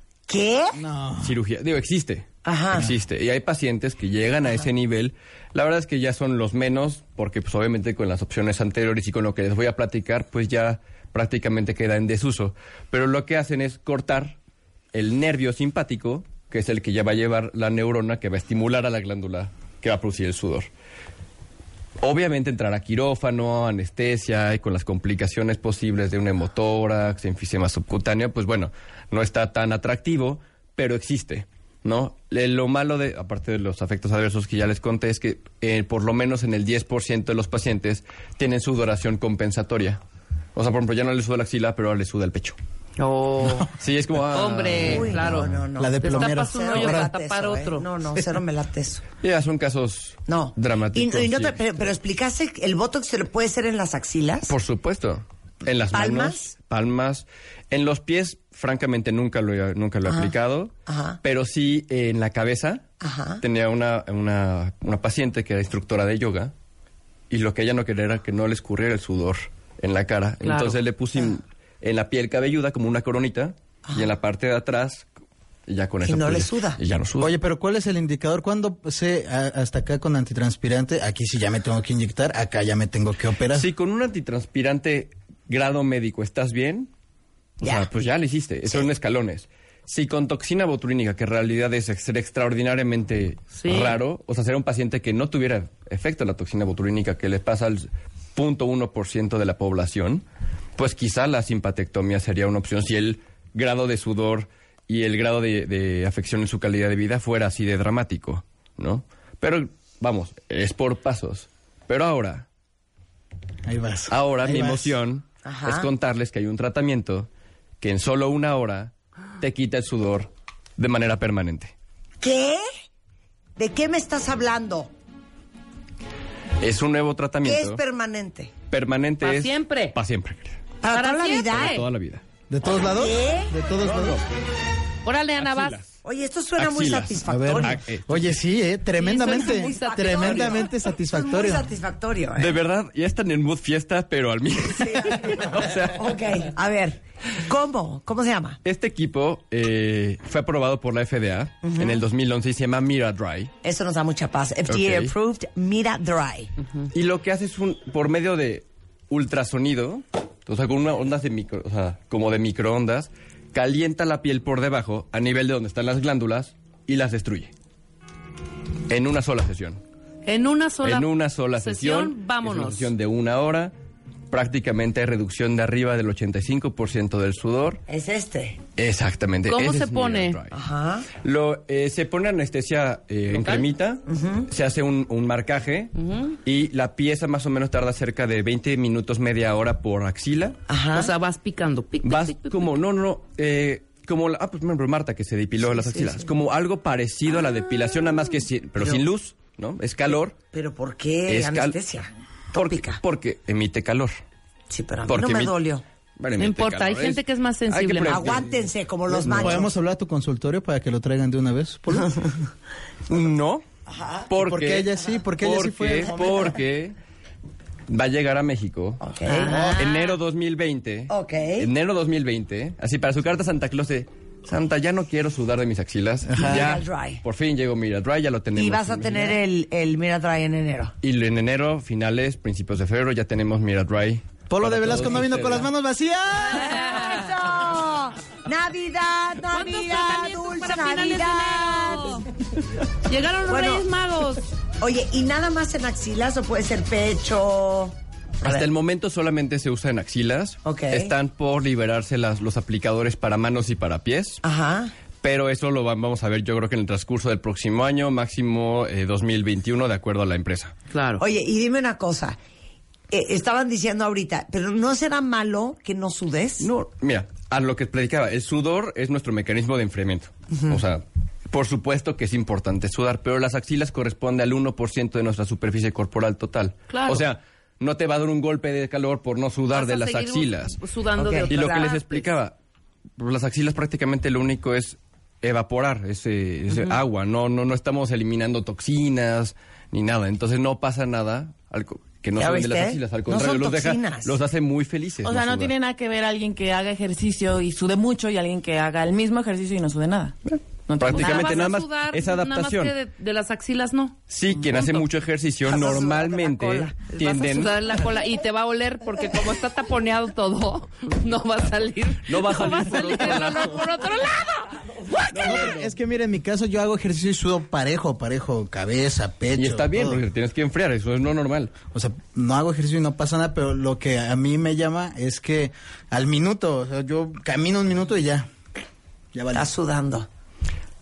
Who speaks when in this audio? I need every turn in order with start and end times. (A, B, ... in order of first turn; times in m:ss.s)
0:00.3-0:00.8 A
0:00.8-0:01.4 B
0:01.2-0:14.4 C
0:02.4-0:02.9 A
0:14.9-0:20.7 C
0:22.0-0:40.0 C
0:40.6-0:42.6 C
0:43.0-0:43.7 D
0:43.7-0:45.3 C
0:44.3-0:45.5 D
0:44.8-0:49.0 A
0:45.1-0:47.1 B
0:46.0-0:47.9 D
0:49.2-0:51.6 C
0:50.3-0:54.5 A
0:54.5-1:00.7 C
0:55.9-0:56.5 A
1:00.1-1:00.3 A
1:00.9-1:01.2 A
1:01.2-1:02.8 C
1:03.0-1:03.4 A
1:03.4-1:06.5 C
1:07.3-1:15.1 C
1:10.4-1:10.8 D
1:15.7-1:17.4 C
1:16.0-1:16.8 A
1:17.2-1:23.7 B
1:23.5-1:26.9 C
1:27.6-1:40.2 C
1:27.6-1:27.9 A
1:33.5-1:34.0 D
1:40.8-1:52.5 C
1:53.6-1:54.9 B
1:54.1-1:57.3 C
1:55.4-1:55.9 A
1:57.8-2:01.7 C
2:02.2-2:02.6 A
2:03.6-2:04.9 A
2:06.6-2:07.8 C
2:07.4-2:08.5 A
2:08.7-2:10.6 C
2:09.2-2:10.0 D
2:10.8-2:11.8 A
2:10.9-2:11.8 D
2:11.5-2:12.2 C
2:12.5-2:14.2 B
2:12.8-2:13.5 A
2:13.8-2:14.2 C
2:15.0-2:15.8 D
2:15.4-2:15.9 C
2:16.0-2:17.8 A
2:16.6-2:18.4 C
2:17.3-2:21.7 B
2:19.0-2:20.7 D
2:19.1-2:22.6 A
2:22.4-2:26.1 C
2:24.8-2:28.6 A
2:28.6-2:33.5 C
2:31.6-2:32.0 A
2:33.6-2:36.5 A
2:34.7-2:35.1 C
2:36.9-2:47.5 C
2:48.9-2:49.8 C
2:50.3-2:52.9 D
2:50.8-2:53.7 C
2:54.3-2:57.8 C
2:57.9-2:58.6 A
2:58.8-3:00.6 C
2:59.5-3:00.4 D
3:00.5-3:01.1 A
3:01.2-3:10.6 C
3:03.3-3:03.7 D
3:04.1-3:04.5 A
3:06.0-3:06.3 D
3:10.7-3:11.1 A
3:10.9-3:12.7 D
3:12.0-3:20.4 C
3:15.7-3:16.2 A
3:20.5-3:23.0 A
3:21.3-3:21.8 C
3:22.5-3:24.2 C
3:24.7-3:25.8 A
3:25.1-3:25.6 C
3:26.2-3:28.5 C
3:26.4-3:28.4 D
3:28.1-3:29.7 A
3:29.1-3:29.7 C
3:29.2-3:32.3 B
3:33.1-3:33.6 C
3:33.9-3:34.3 A
3:34.3-3:37.0 C
3:34.3-3:36.4 B
3:36.1-3:36.6 A
3:37.9-3:39.0 C
3:39.0-3:39.7 A
3:39.3-3:40.2 D
3:39.5-3:39.8 B
3:39.8-3:49.4 C
3:41.1-3:41.7 A
3:46.3-3:46.6 B
3:46.4-3:47.2 A
3:48.6-3:50.9 A
3:51.0-3:55.7 C
3:54.5-3:56.9 B
3:56.6-4:02.2 A
3:59.5-4:02.2 D
4:03.1-4:04.4 D
4:03.5-4:03.8 A
4:04.8-4:08.7 A
4:08.4-4:14.4 C
4:10.6-4:11.1 A
4:14.4-4:14.9 A
4:15.2-4:20.7 C
4:20.9-4:21.2 D
4:21.2-4:22.4 A
4:23.1-4:26.7 A
4:26.6-4:40.8 C
4:36.9-4:37.2 D
4:39.7-4:42.1 D
4:41.2-4:41.9 A
4:41.5-4:42.5 C
4:43.2-4:55.7 C
4:46.7-4:47.0 D
4:52.4-4:54.4 A
4:55.2-5:01.6 E
5:00.5-5:03.0 C
5:01.2-5:04.2 D
5:04.3-5:07.8 C
5:05.7-5:06.9 A
5:07.1-5:15.6 D
5:12.3-5:13.9 C
5:15.3-5:16.0 C
5:15.4-5:20.2 B
5:19.6-5:21.7 C
5:21.9-5:28.5 B
5:29.3-5:29.7 B
5:29.5-5:30.3 A